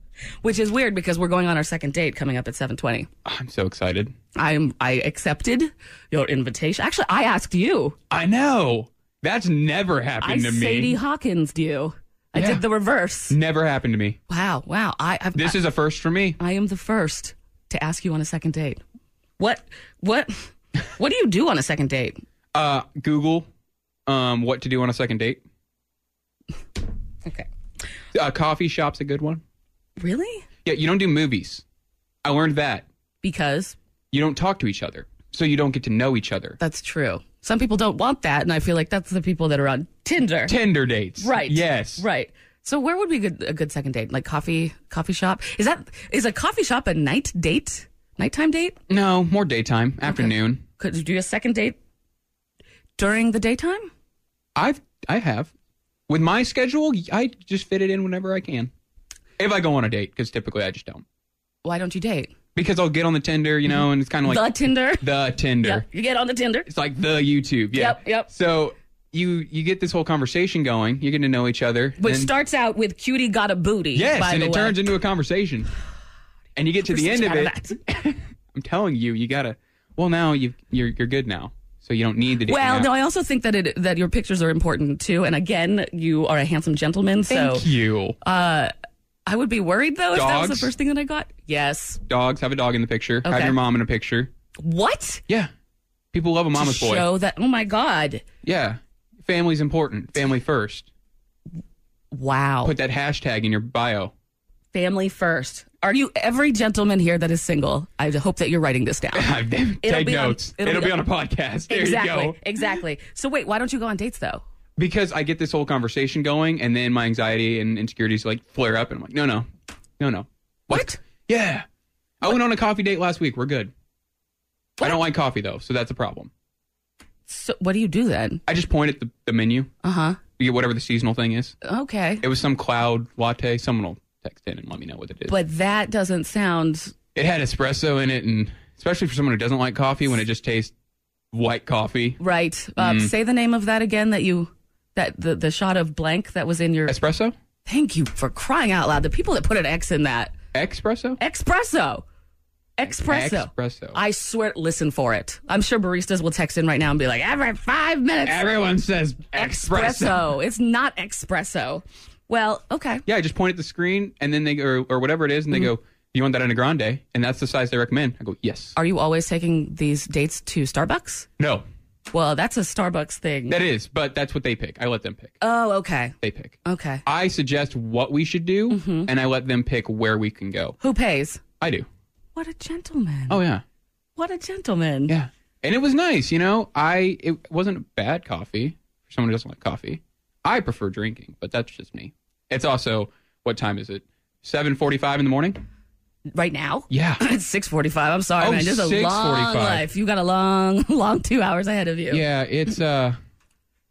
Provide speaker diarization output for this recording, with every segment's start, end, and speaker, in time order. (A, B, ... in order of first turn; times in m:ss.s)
0:00.4-0:03.1 A
0:03.2-0:04.2 B
0:04.4-0:08.0 A
0:08.1-0:11.0 B
0:10.2-0:13.4 A
0:12.4-0:12.6 B
0:13.3-0:14.2 B
0:14.3-0:15.6 A
0:15.4-0:16.4 B
0:16.4-0:18.8 A
0:19.4-0:22.2 A
0:22.5-0:23.5 B
0:24.1-0:25.4 B
0:28.1-0:29.4 B
0:30.0-0:30.5 A
0:30.6-0:31.6 B
0:32.2-0:32.9 B
0:33.2-0:33.8 A
0:34.1-0:36.6 B
0:36.6-0:40.6 A
0:40.5-0:42.0 B
0:41.2-0:48.8 A
0:48.9-0:50.6 B
0:50.1-0:51.8 A
0:53.0-0:53.9 A
0:54.6-0:55.5 B
0:56.1-0:58.7 B
0:59.4-1:01.0 B
1:01.6-1:02.3 A
1:02.6-1:05.8 B
1:03.7-1:05.1 A
1:05.6-1:06.7 A
1:06.7-1:12.3 B
1:07.7-1:08.3 A
1:12.0-1:14.8 A
1:14.0-1:15.7 B
1:16.6-1:22.9 B
1:16.8-1:17.8 A
1:22.5-1:27.7 A
1:27.3-1:28.2 B
1:28.2-1:28.7 A
1:29.3-1:32.0 A
1:30.1-1:30.7 B
1:32.1-1:34.3 B
1:33.2-1:33.6 A
1:34.6-1:35.2 A
1:36.1-1:37.1 B
1:36.6-1:38.2 A
1:38.4-1:40.9 B
1:42.1-1:42.7 A
1:42.6-1:44.1 B
1:44.7-1:51.0 A
1:49.2-1:52.5 B
1:51.7-1:54.4 A
1:54.8-1:59.5 B
2:00.0-2:01.6 B
2:00.7-2:01.0 A
2:02.2-2:03.7 B
2:04.8-2:06.3 B
2:07.3-2:08.4 A
2:08.5-2:09.7 B
2:09.8-2:10.2 A
2:10.4-2:11.6 B
2:11.6-2:12.2 A
2:12.2-2:15.4 B
2:15.3-2:16.9 A
2:17.2-2:20.7 B
2:21.3-2:22.2 B
2:22.2-2:27.0 A
2:22.8-2:23.1 B
2:26.9-2:27.4 B
2:27.7-2:30.3 A
2:30.5-2:31.2 B
2:31.2-2:32.0 A
2:32.8-2:38.5 A
2:32.9-2:34.0 B
2:38.2-2:40.3 B
2:39.3-2:43.0 A
2:43.1-2:48.8 B
2:48.8-2:51.3 A
2:51.4-2:51.6 B
2:52.1-2:53.6 A
2:53.5-2:55.4 B
2:55.4-2:57.0 A
2:56.2-3:00.8 B
2:58.7-2:59.1 A
3:00.8-3:01.4 A
3:01.6-3:01.9 B
3:02.4-3:03.4 A
3:03.3-3:03.6 B
3:04.2-3:05.2 A
3:05.1-3:15.6 B
3:16.3-3:22.2 A
3:16.9-3:17.2 B
3:18.4-3:19.8 B
3:22.1-3:23.2 B